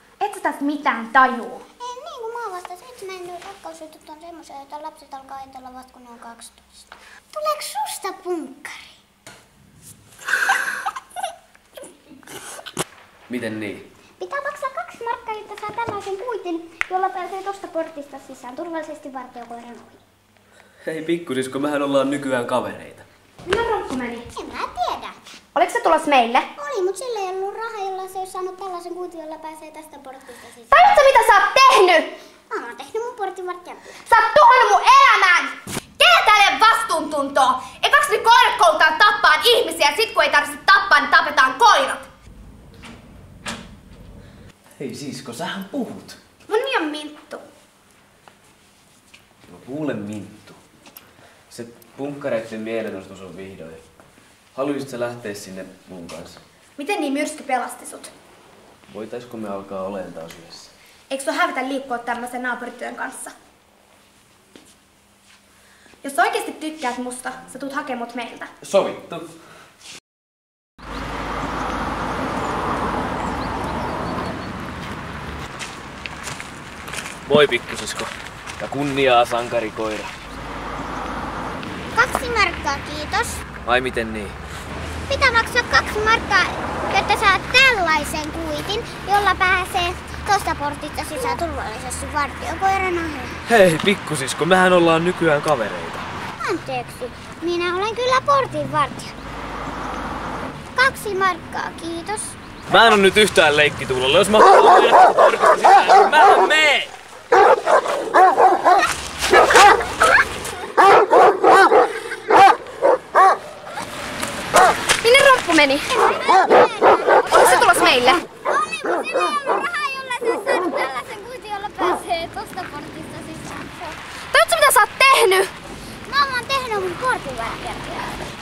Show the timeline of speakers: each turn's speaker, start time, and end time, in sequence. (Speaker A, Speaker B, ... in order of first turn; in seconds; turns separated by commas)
Speaker A: 0.2-1.6, Speaker B: 1.8-9.0, Speaker C: 13.3-13.9, Speaker B: 14.2-20.0, Speaker C: 20.8-23.1, Speaker A: 23.4-24.2, Speaker B: 24.3-25.2, Speaker A: 25.5-26.5, Speaker B: 26.6-30.9, Speaker A: 30.7-32.1, Speaker B: 32.5-34.0, Speaker A: 34.0-42.0, Speaker C: 44.8-46.2, Speaker A: 46.5-47.4, Speaker C: 49.5-50.6, Speaker C: 51.5-53.8, Speaker C: 54.5-56.4, Speaker A: 56.8-58.1, Speaker C: 58.9-60.7, Speaker A: 61.1-63.3, Speaker A: 66.0-68.5, Speaker C: 68.6-69.3, Speaker C: 77.2-80.1, Speaker B: 81.9-83.4, Speaker C: 83.6-84.3, Speaker B: 85.1-93.4, Speaker C: 93.5-96.0, Speaker B: 96.4-99.1, Speaker B: 100.7-102.3, Speaker C: 102.7-106.9, Speaker A: 115.0-115.9, Speaker B: 115.9-124.0, Speaker A: 117.3-118.2, Speaker A: 124.3-125.5, Speaker B: 126.1-128.2